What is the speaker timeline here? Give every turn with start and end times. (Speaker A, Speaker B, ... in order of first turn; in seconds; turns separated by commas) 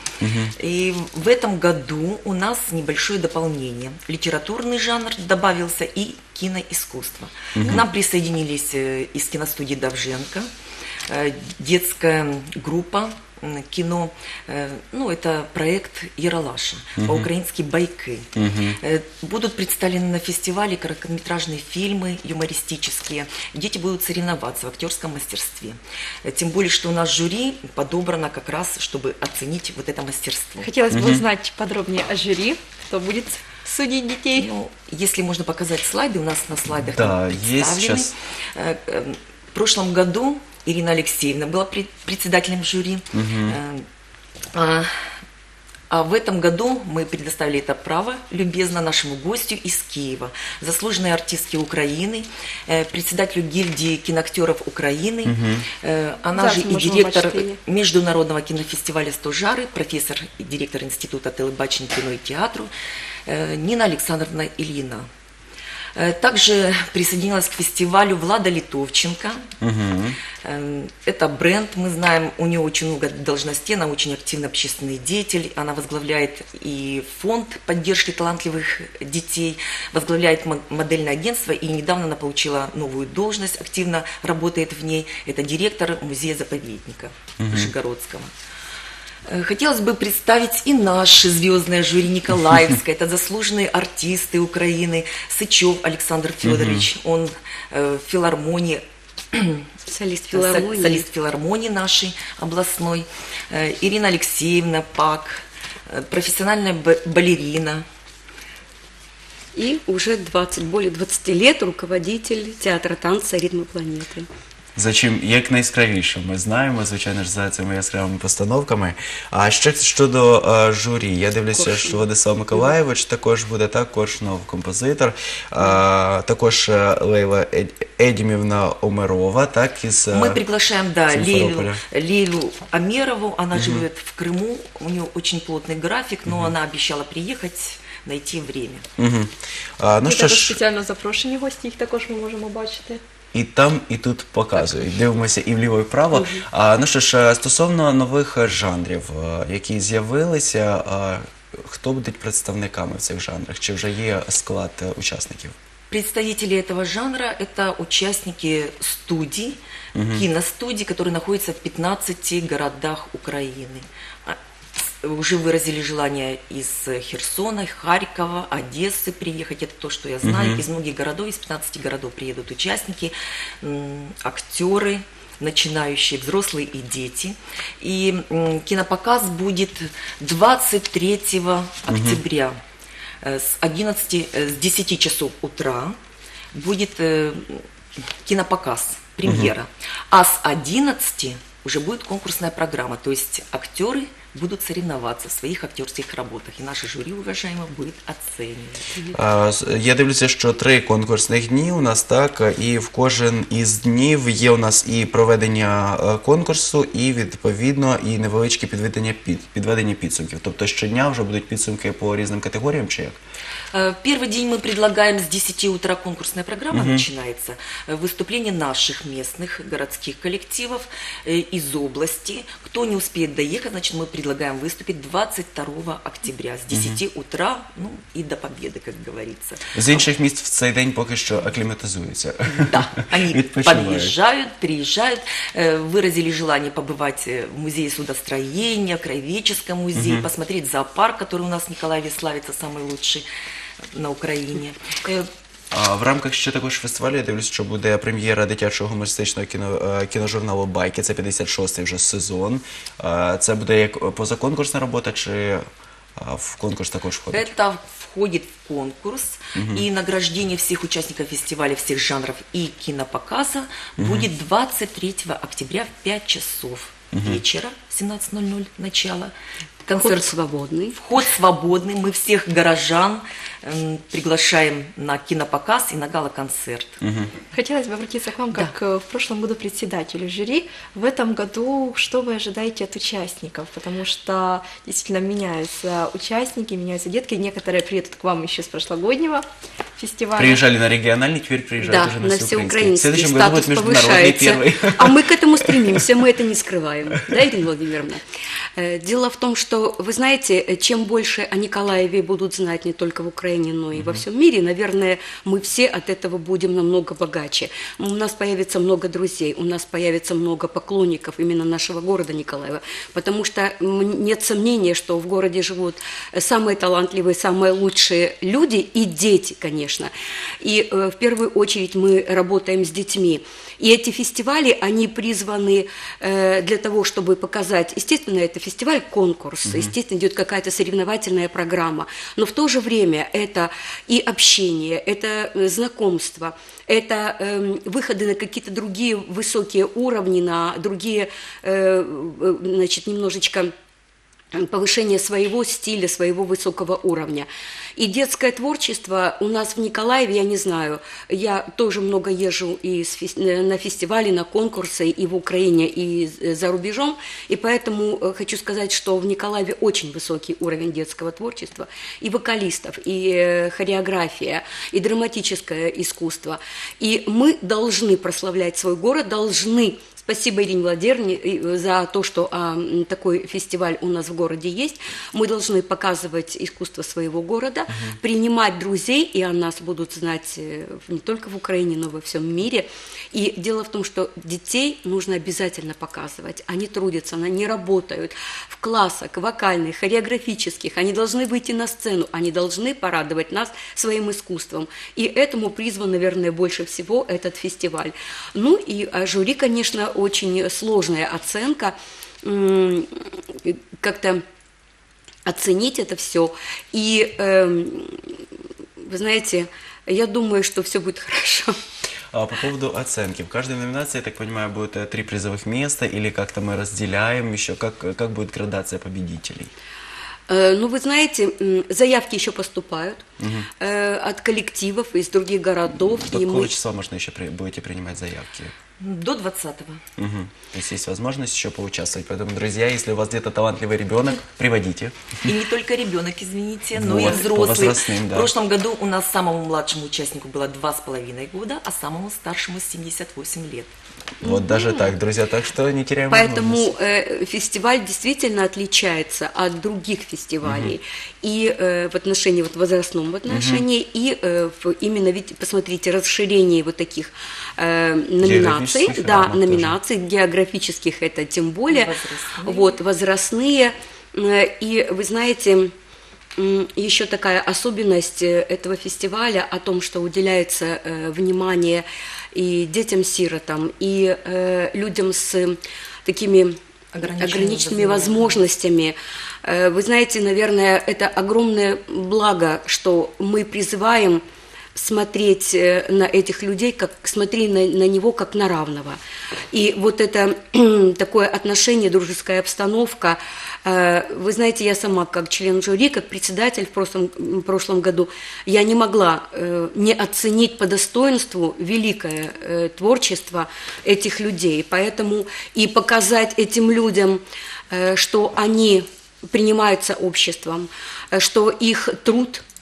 Speaker A: 0.2-0.5, Speaker B: 0.6-10.5, Speaker A: 7.5-7.8, Speaker B: 11.1-30.7, Speaker A: 17.0-17.3, Speaker A: 18.3-18.8, Speaker C: 30.6-34.5, Speaker A: 30.9-31.2, Speaker B: 34.3-43.9, Speaker A: 36.8-38.1, Speaker A: 43.1-43.6, Speaker B: 44.5-45.0, Speaker B: 45.9-62.7, Speaker A: 55.2-55.7, Speaker C: 56.3-57.6, Speaker B: 63.3-65.1, Speaker B: 66.0-69.5, Speaker A: 69.6-70.2, Speaker B: 70.4-88.3, Speaker A: 87.4-87.7, Speaker B: 89.3-99.7, Speaker A: 96.4-96.9, Speaker D: 99.8-101.0, Speaker B: 100.3-107.8, Speaker D: 109.5-114.3, Speaker A: 114.8-130.4, Speaker D: 121.5-122.0, Speaker B: 130.1-138.8, Speaker A: 131.1-131.8, Speaker A: 133.5-133.8, Speaker A: 136.3-136.5, Speaker A: 139.0-140.6, Speaker C: 140.0-143.0, Speaker A: 143.3-155.5, Speaker B: 155.9-159.6, Speaker A: 159.9-160.2, Speaker B: 160.1-182.6, Speaker A: 170.2-170.6, Speaker A: 181.9-182.2, Speaker B: 183.2-186.0, Speaker B: 186.5-187.7, Speaker B: 188.2-198.9, Speaker A: 189.2-189.5, Speaker A: 199.1-213.2, Speaker B: 213.7-230.1, Speaker A: 216.7-217.1, Speaker A: 226.7-227.0, Speaker A: 229.7-234.1, Speaker B: 232.4-243.2, Speaker A: 239.9-240.3, Speaker B: 243.9-245.3, Speaker A: 245.7-255.6, Speaker A: 256.2-257.5, Speaker B: 257.3-269.3, Speaker A: 259.5-259.8, Speaker A: 264.0-264.3, Speaker A: 267.1-267.4, Speaker B: 269.9-270.3, Speaker D: 270.0-271.0, Speaker B: 270.9-277.0, Speaker A: 277.0-277.3, Speaker C: 277.5-289.4, Speaker C: 290.0-290.6, Speaker A: 290.4-296.1, Speaker D: 291.9-298.2, Speaker D: 298.8-343.7, Speaker A: 303.9-304.2, Speaker A: 329.6-329.9, Speaker D: 344.5-404.4, Speaker A: 377.9-378.2, Speaker D: 405.4-408.4, Speaker D: 409.0-411.7, Speaker A: 412.3-419.7, Speaker D: 420.5-423.2, Speaker A: 423.4-423.7, Speaker D: 423.8-426.8, Speaker A: 426.2-428.7, Speaker B: 429.0-430.0, Speaker A: 430.2-435.4, Speaker B: 435.4-443.9, Speaker A: 436.9-438.5, Speaker A: 444.4-446.9, Speaker D: 444.4-445.1, Speaker D: 446.3-462.1, Speaker A: 450.6-450.9, Speaker A: 453.5-453.9, Speaker A: 458.4-460.0, Speaker B: 461.9-463.0, Speaker D: 462.6-465.9, Speaker D: 466.6-476.8, Speaker B: 477.1-478.6, Speaker D: 477.4-484.4, Speaker D: 484.9-489.2, Speaker D: 489.7-512.6